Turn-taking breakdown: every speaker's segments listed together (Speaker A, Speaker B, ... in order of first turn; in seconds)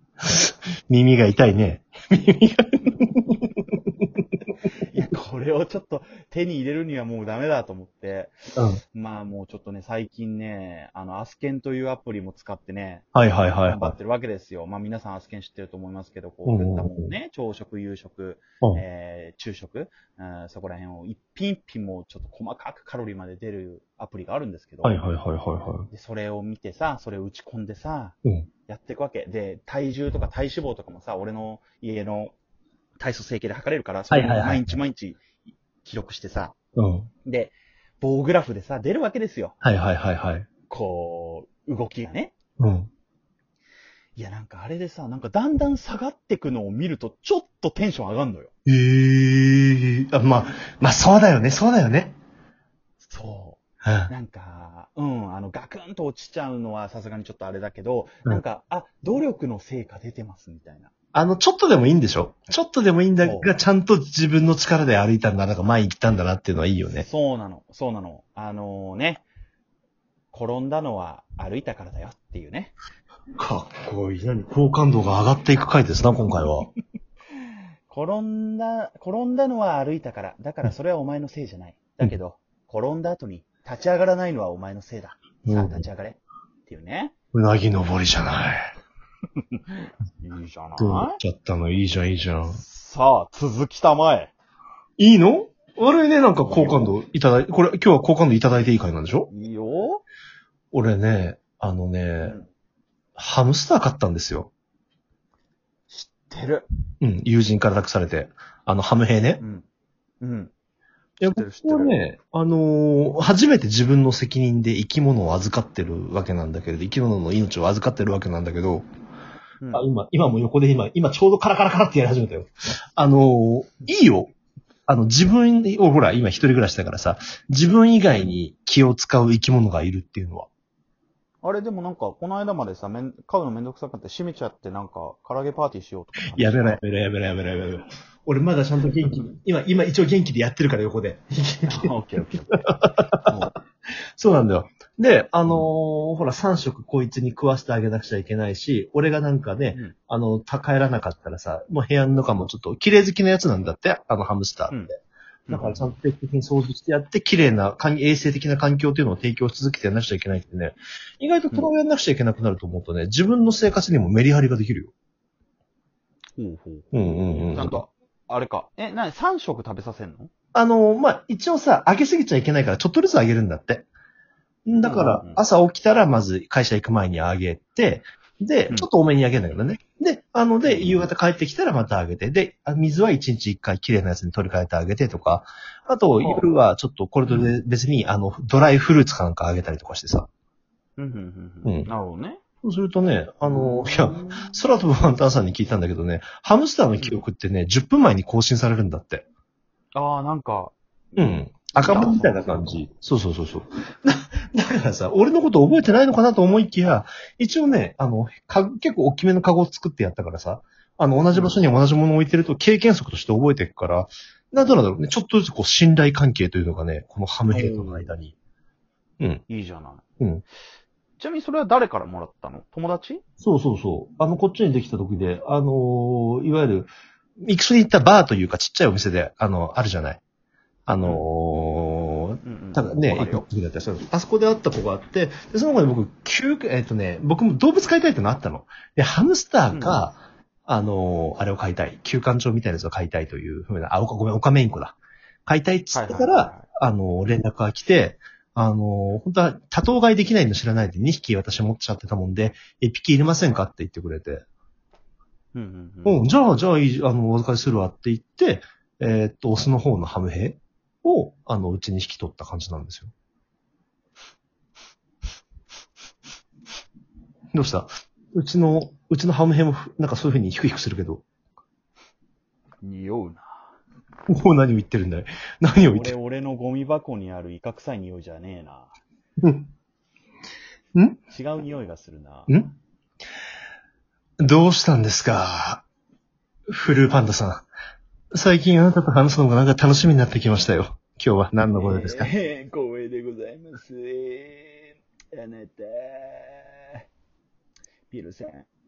Speaker A: 0.2-4.1, 13.1-13.9, 16.4-17.1, 24.8-25.9, 34.1-34.8, 36.8-37.1, 39.6-40.5, 42.6-42.9, 48.6-52.2, 53.8-54.1, 61.1-67.0, 73.3-76.7, 85.4-85.8, 87.3-88.6, 90.8-92.6, 95.0-99.3, 100.7-102.4, 103.2-104.5, 107.0-109.4, 111.2-118.8, 119.7-124.3, 124.9-130.5, 136.3-141.9, 142.5-143.3, 144.2-154.9, 155.5-164.9, 166.9-167.8, 170.5-173.9, 174.7-190.3, 191.6-191.9, 192.6-199.2, 201.2-218.3, 223.4-230.2, 230.9-244.9, 245.5-254.4, 256.1-263.1, 267.5-271.2, 274.3-276.1, 279.4-279.7, 284.4-285.8, 286.7-287.7, 288.3-292.3
Speaker B: 4.9-8.3, 8.9-13.1, 13.7-25.0, 25.9-32.3, 33.0-35.2, 35.8-36.5, 37.2-39.6, 40.7-42.3, 44.1-48.5, 53.0-60.9, 63.2-63.5, 66.9-69.2, 70.3-72.7, 77.9-87.1, 90.2-91.2, 92.5-94.3, 96.5-96.8, 99.3-100.0, 105.9-106.7, 109.4-109.6, 110.2-110.5, 111.3-112.0, 119.6-119.8, 131.4-136.8, 141.7-142.7, 143.2-143.5, 155.5-155.8, 166.3-166.9, 167.5-170.3, 174.8-175.4, 180.6-181.0, 186.2-186.4, 191.0-192.4, 193.4-194.6, 199.9-202.8, 211.3-211.6, 217.5-218.1, 219.5-220.0, 221.2-223.2, 232.4-233.4, 239.7-240.0, 245.9-246.7, 255.5-256.2, 272.8-273.6, 275.8-278.9, 281.3-282.5, 291.7-297.0, 298.1-298.7